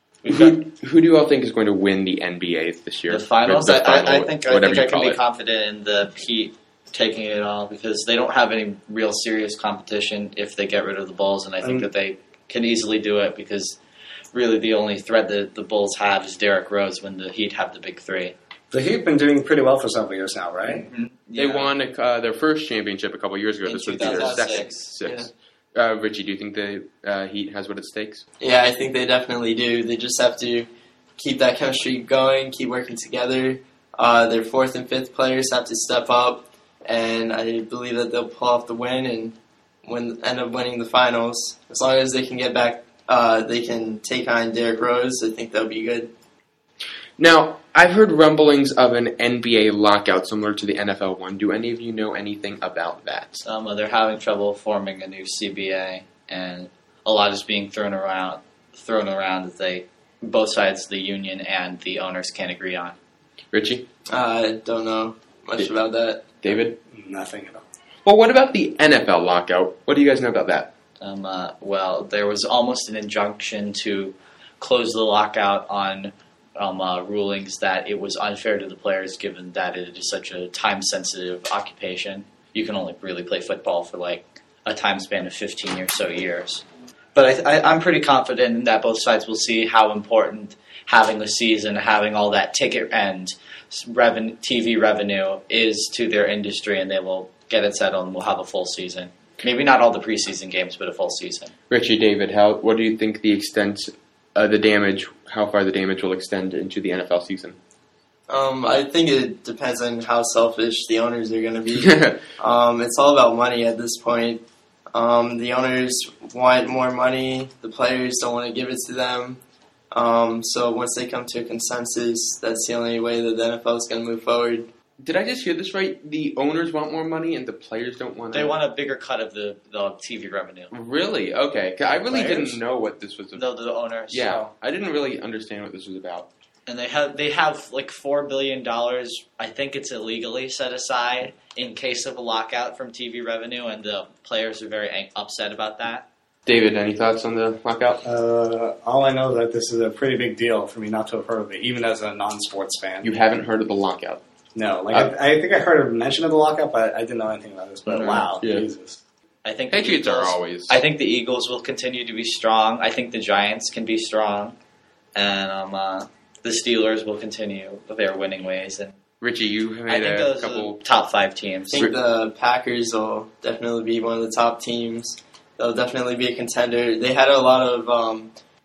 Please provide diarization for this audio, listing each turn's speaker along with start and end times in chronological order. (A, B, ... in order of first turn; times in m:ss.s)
0:00.2-0:00.6 A
0:00.2-0:05.2 B
0:03.1-0:13.8 A
0:11.6-0:11.9 C
0:14.3-0:18.4 A
0:18.7-0:20.8 C
0:20.8-0:21.7 A
0:21.4-0:28.2 B
0:23.6-0:25.3 A
0:24.1-0:24.6 D
0:28.4-0:46.1 D
0:47.2-0:53.4 B
0:53.4-1:03.0 A
1:03.5-1:03.9 B
1:04.1-1:06.3 D
1:06.4-1:06.8 B
1:06.9-1:07.6 C
1:08.0-1:10.7 B
1:11.0-1:26.6 A
1:27.1-1:41.5 A
1:41.7-1:47.6 B
1:48.3-2:04.7 D
1:51.8-1:52.2 B
2:05.0-2:08.6 B
2:08.3-2:10.7 A
2:10.7-2:13.4 B
2:12.0-2:12.5 A
2:13.3-2:14.5 A
2:14.1-2:16.3 B
2:16.7-2:26.1 A
2:26.4-2:28.0 B
2:28.0-2:33.0 C
2:33.0-2:34.2 B
2:34.6-2:39.0 C
2:37.9-2:38.3 A
2:38.4-2:38.6 B
2:39.4-2:44.6 A
2:39.7-2:40.8 B
2:45.1-2:48.9 A
2:49.2-2:50.8 B
2:49.9-2:51.8 A
2:51.7-2:58.3 D